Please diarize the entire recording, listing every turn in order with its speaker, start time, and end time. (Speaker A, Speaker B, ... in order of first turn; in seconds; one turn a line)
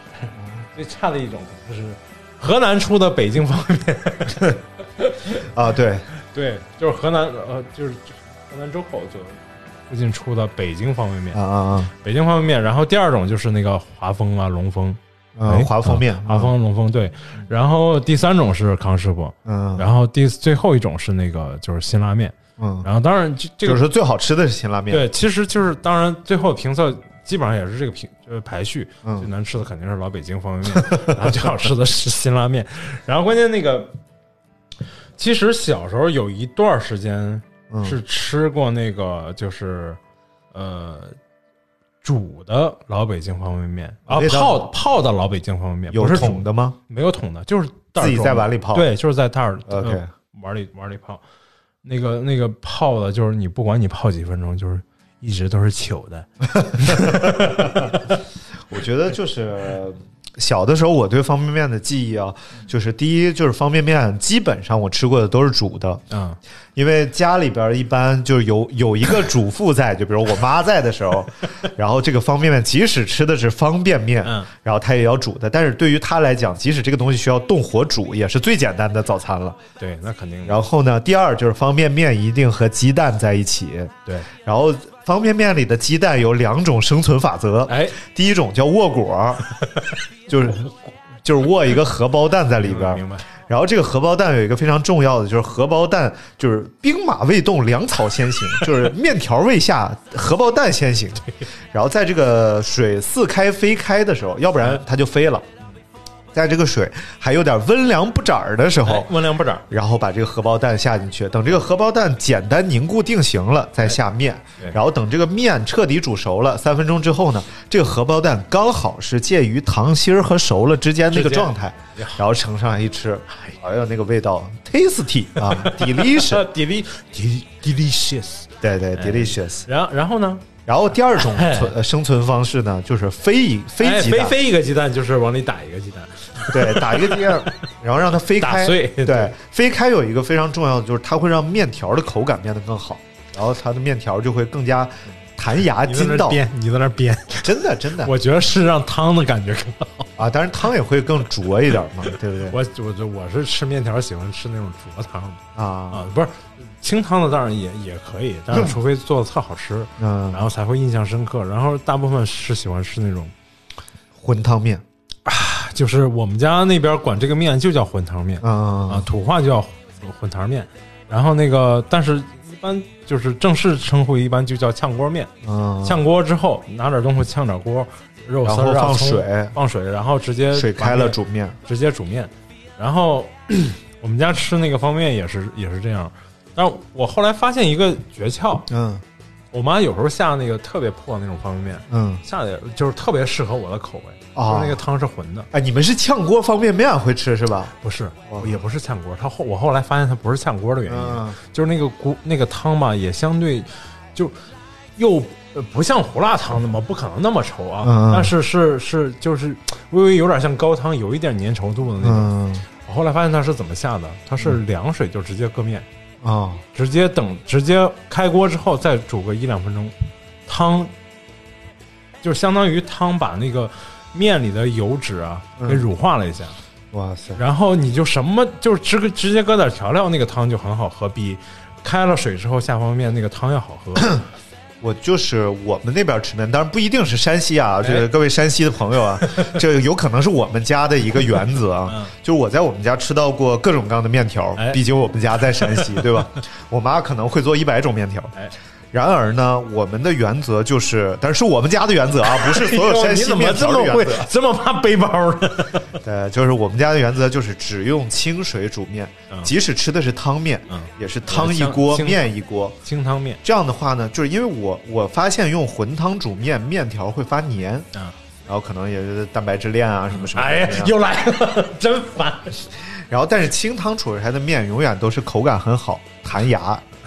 Speaker A: 0.1-5.4
Speaker B: 0.3-0.6
Speaker B: 5.5-6.0
Speaker A: 6.3-11.4
Speaker B: 11.3-11.9
Speaker A: 12.0-23.8
Speaker B: 15.4-16.5
Speaker B: 19.4-19.9
Speaker B: 22.6-22.9
Speaker B: 23.6-25.1
Speaker A: 24.9-33.9
Speaker B: 30.7-31.6
Speaker A: 35.2-40.0
Speaker B: 37.7-38.0
Speaker A: 40.5-41.1
Speaker A: 42.0-51.2
Speaker B: 44.1-44.7
Speaker B: 45.9-46.8
Speaker B: 48.0-48.9
Speaker B: 49.7-50.1
Speaker A: 51.8-58.0
Speaker B: 56.5-57.9
Speaker B: 58.7-66.0
Speaker A: 66.1-66.4
Speaker B: 66.7-79.6
Speaker A: 74.2-74.5
Speaker A: 79.8-80.6
Speaker B: 80.4-89.4
Speaker A: 87.7-88.0
Speaker B: 90.3-105.6
Speaker A: 92.6-93.2
Speaker B: 106.3-109.2
Speaker A: 108.8-109.6
Speaker B: 109.7-126.4
Speaker A: 121.1-122.2
Speaker A: 123.3-123.6
Speaker A: 125.4-130.4
Speaker B: 128.6-129.7
Speaker B: 130.7-134.4
Speaker A: 131.1-131.7
Speaker A: 133.8-137.6
Speaker B: 136.5-146.4
Speaker A: 138.4-139.3
Speaker A: 145.8-150.1
Speaker B: 147.4-148.1
Speaker B: 150.2-152.6
Speaker A: 152.5-163.3
Speaker B: 155.5-156.1
Speaker B: 160.0-160.4
Speaker B: 164.1-164.8
Speaker A: 165.2-175.3
Speaker B: 168.4-169.1
Speaker B: 175.4-176.0
Speaker A: 175.8-188.7
Speaker B: 178.4-179.6
Speaker B: 180.5-181.6
Speaker B: 188.7-189.0
Speaker A: 189.5-195.5
Speaker B: 191.9-192.2
Speaker B: 194.3-194.8
Speaker B: 195.5-197.7
Speaker A: 197.8-204.3
Speaker B: 198.3-198.6
Speaker B: 200.8-201.4
Speaker A: 205.0-215.9
Speaker B: 207.8-208.3
Speaker B: 212.0-212.6
Speaker B: 216.2-216.6
Speaker A: 216.7-219.9
Speaker A: 220.5-220.9
Speaker A: 222.2-226.6
Speaker B: 225.6-225.9
Speaker B: 226.9-227.4
Speaker A: 227.3-234.2
Speaker B: 234.8-248.3
Speaker A: 237.8-238.1
Speaker A: 241.9-242.1
Speaker A: 245.6-246.0
Speaker B: 248.9-254.3
Speaker A: 252.2-255.9
Speaker B: 256.0-262.8
Speaker A: 260.7-262.3
Speaker A: 262.8-263.4
Speaker B: 263.4-267.9
Speaker B: 268.4-270.9
Speaker A: 270.1-272.6
Speaker B: 272.9-276.8